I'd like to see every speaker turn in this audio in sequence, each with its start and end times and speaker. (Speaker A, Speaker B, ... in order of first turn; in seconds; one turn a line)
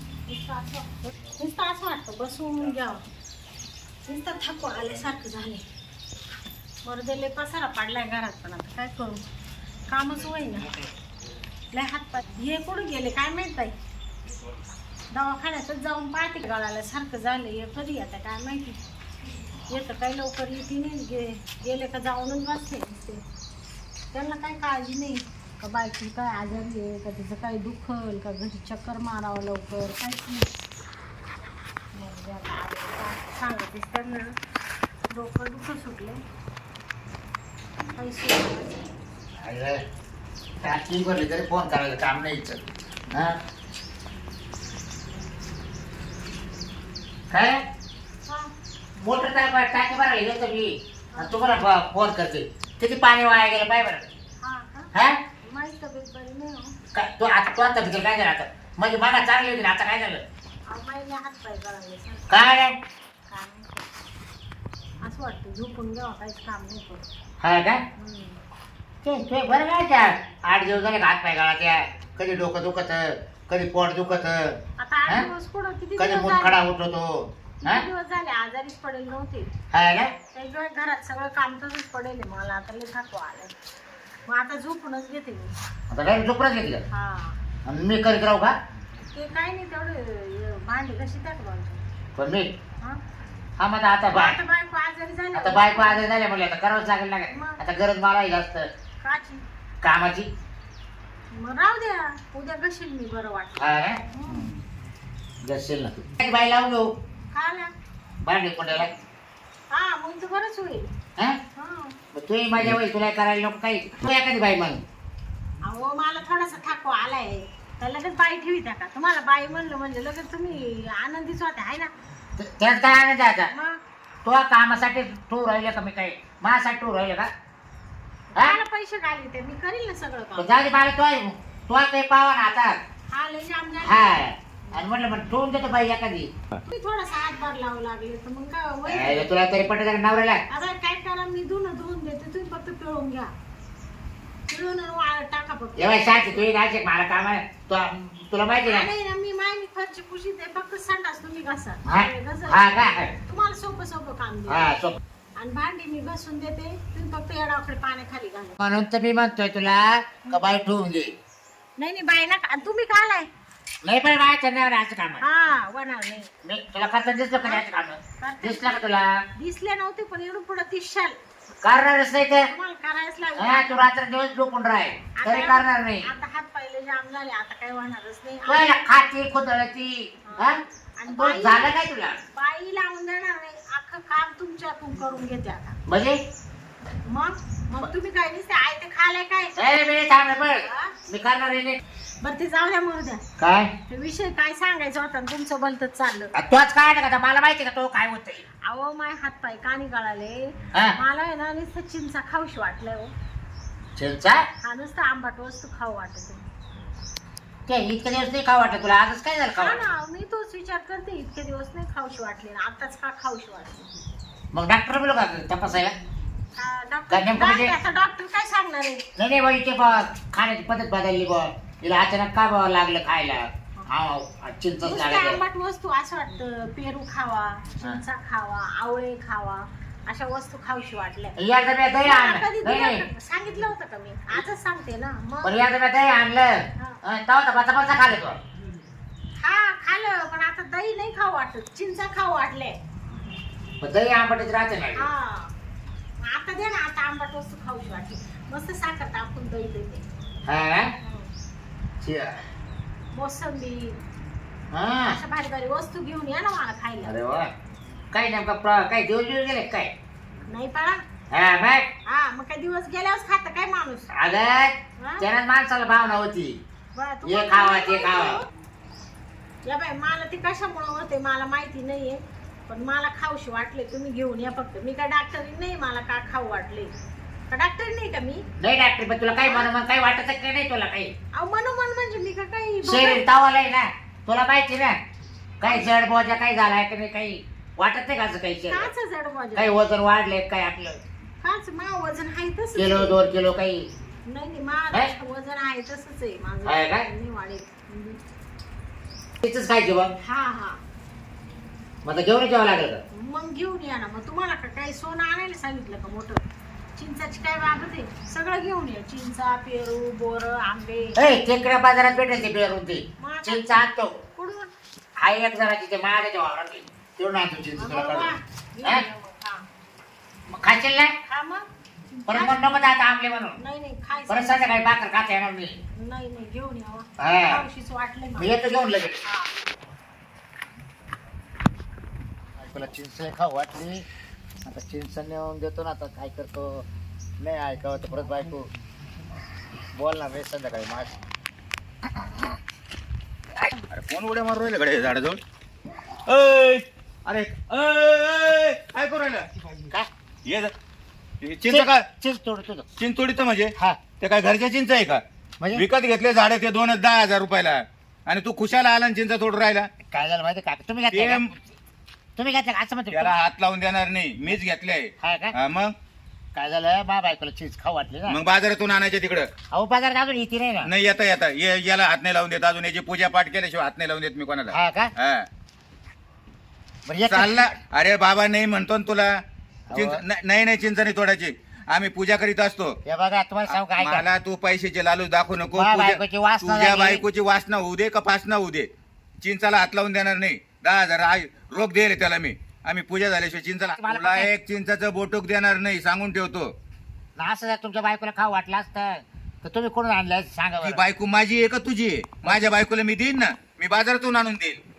Speaker A: 0.3-3.0
Speaker A: 4.1-5.6
Speaker A: 6.8-9.2
Speaker A: 9.9-10.8
Speaker A: 11.7-13.8
Speaker A: 15.1-18.8
Speaker A: 19.7-23.2
Speaker A: 24.1-30.5
Speaker A: 31.9-34.4
Speaker A: 35.1-36.2
Speaker A: 38.0-38.8
Speaker B: 39.4-39.8
Speaker B: 40.6-43.4
Speaker B: 47.3-47.6
Speaker A: 48.2-48.5
Speaker B: 49.0-54.1
Speaker A: 51.1-51.5
Speaker A: 54.4-54.9
Speaker B: 54.9-55.2
Speaker A: 55.4-56.8
Speaker B: 56.9-60.2
Speaker A: 60.7-62.6
Speaker B: 62.3-62.8
Speaker A: 63.3-63.9
Speaker A: 65.0-67.1
Speaker B: 67.4-67.8
Speaker A: 68.0-68.4
Speaker B: 69.0-75.3
Speaker A: 74.8-76.6
Speaker B: 76.0-77.8
Speaker A: 77.6-79.5
Speaker B: 79.7-80.1
Speaker A: 80.3-83.5
Speaker A: 84.3-85.5
Speaker B: 85.9-86.8
Speaker A: 86.9-87.4
Speaker B: 87.7-88.6
Speaker A: 89.1-91.8
Speaker B: 92.2-92.5
Speaker B: 93.6-94.4
Speaker A: 94.1-96.1
Speaker B: 95.3-98.7
Speaker A: 97.3-97.6
Speaker A: 99.0-99.5
Speaker B: 99.8-100.3
Speaker A: 101.3-104.5
Speaker B: 103.6-104.4
Speaker B: 105.4-106.9
Speaker A: 107.3-107.7
Speaker B: 108.2-108.9
Speaker A: 109.7-110.9
Speaker A: 111.6-112.0
Speaker B: 112.1-114.8
Speaker A: 115.6-121.9
Speaker B: 122.4-123.5
Speaker A: 123.5-123.8
Speaker B: 124.2-127.3
Speaker A: 128.3-130.5
Speaker B: 130.4-132.8
Speaker A: 133.1-134.9
Speaker B: 133.8-136.3
Speaker A: 136.7-139.4
Speaker B: 138.9-140.4
Speaker A: 140.5-143.3
Speaker A: 144.5-146.5
Speaker B: 145.8-148.9
Speaker A: 148.7-154.8
Speaker B: 151.9-153.1
Speaker B: 154.5-155.0
Speaker A: 155.4-158.6
Speaker B: 158.6-161.2
Speaker A: 160.3-160.6
Speaker A: 161.8-163.3
Speaker B: 163.8-165.2
Speaker A: 165.2-166.3
Speaker B: 166.4-169.2
Speaker A: 167.4-167.7
Speaker A: 168.2-168.8
Speaker A: 169.4-171.2
Speaker B: 171.6-172.5
Speaker A: 172.4-173.9
Speaker B: 173.4-176.1
Speaker A: 175.2-179.1
Speaker B: 178.5-182.2
Speaker A: 180.3-181.8
Speaker A: 182.3-185.8
Speaker B: 185.9-186.2
Speaker A: 187.1-189.7
Speaker B: 189.6-191.8
Speaker A: 190.3-191.0
Speaker A: 192.2-193.2
Speaker B: 193.4-193.7
Speaker A: 193.9-196.3
Speaker B: 196.3-198.5
Speaker A: 198.7-203.1
Speaker B: 204.0-204.5
Speaker A: 204.6-206.4
Speaker B: 207.7-209.8
Speaker A: 209.6-213.9
Speaker B: 214.5-215.9
Speaker A: 216.6-219.1
Speaker B: 217.1-217.8
Speaker B: 219.2-225.4
Speaker A: 224.8-231.4
Speaker B: 231.4-233.1
Speaker A: 232.0-235.6
Speaker B: 235.4-238.4
Speaker A: 239.4-242.8
Speaker B: 243.8-245.1
Speaker A: 245.0-245.5
Speaker A: 246.2-250.0
Speaker B: 250.5-250.9
Speaker A: 251.0-251.3
Speaker B: 252.0-252.4
Speaker A: 253.1-254.0
Speaker B: 254.7-255.2
Speaker A: 255.1-257.1
Speaker B: 257.0-257.5
Speaker B: 258.1-259.9
Speaker A: 260.5-261.0
Speaker B: 261.3-261.9
Speaker A: 262.1-264.1
Speaker B: 264.1-266.6
Speaker A: 265.0-265.3
Speaker A: 266.9-268.5
Speaker B: 267.2-268.4
Speaker A: 269.6-276.9
Speaker A: 277.5-278.4
Speaker B: 278.6-281.1
Speaker A: 279.4-279.7
Speaker A: 281.3-283.2
Speaker B: 282.8-285.0
Speaker B: 285.6-288.9
Speaker A: 288.7-289.8
Speaker B: 289.6-291.0
Speaker A: 291.4-293.2
Speaker B: 292.8-293.9
Speaker A: 294.2-298.2
Speaker B: 296.6-297.1
Speaker B: 299.4-300.1
Speaker A: 300.2-300.8
Speaker B: 302.0-303.0
Speaker A: 303.1-306.4
Speaker A: 307.0-311.2
Speaker B: 311.2-314.2
Speaker A: 313.2-314.7
Speaker B: 315.2-318.3
Speaker A: 317.8-319.6
Speaker B: 320.5-321.1
Speaker A: 321.3-321.7
Speaker A: 322.3-322.8
Speaker B: 322.3-323.6
Speaker A: 323.6-324.9
Speaker B: 324.3-325.8
Speaker A: 325.9-328.6
Speaker B: 327.2-327.6
Speaker B: 328.4-329.2
Speaker A: 329.2-329.5
Speaker B: 332.6-334.1
Speaker B: 334.6-336.9
Speaker B: 337.4-338.7
Speaker B: 339.9-341.2
Speaker C: 343.9-345.4
Speaker C: 346.3-349.5
Speaker C: 350.5-350.7
Speaker C: 351.4-352.1
Speaker B: 351.7-352.9
Speaker C: 353.0-355.2
Speaker C: 355.7-359.9
Speaker B: 360.1-361.4
Speaker C: 361.1-361.6
Speaker B: 362.4-363.4
Speaker C: 363.1-365.9
Speaker B: 365.2-365.5
Speaker B: 366.6-368.4
Speaker C: 368.3-369.5
Speaker B: 369.7-370.9
Speaker C: 370.8-375.5
Speaker B: 374.7-375.1
Speaker B: 377.1-377.7
Speaker C: 377.3-379.3
Speaker B: 379.9-380.2
Speaker C: 379.9-383.0
Speaker B: 383.1-384.3
Speaker C: 383.7-388.9
Speaker B: 385.8-387.2
Speaker C: 389.4-396.7
Speaker B: 393.9-394.5
Speaker B: 397.4-401.0
Speaker C: 400.8-404.8
Speaker B: 402.5-402.7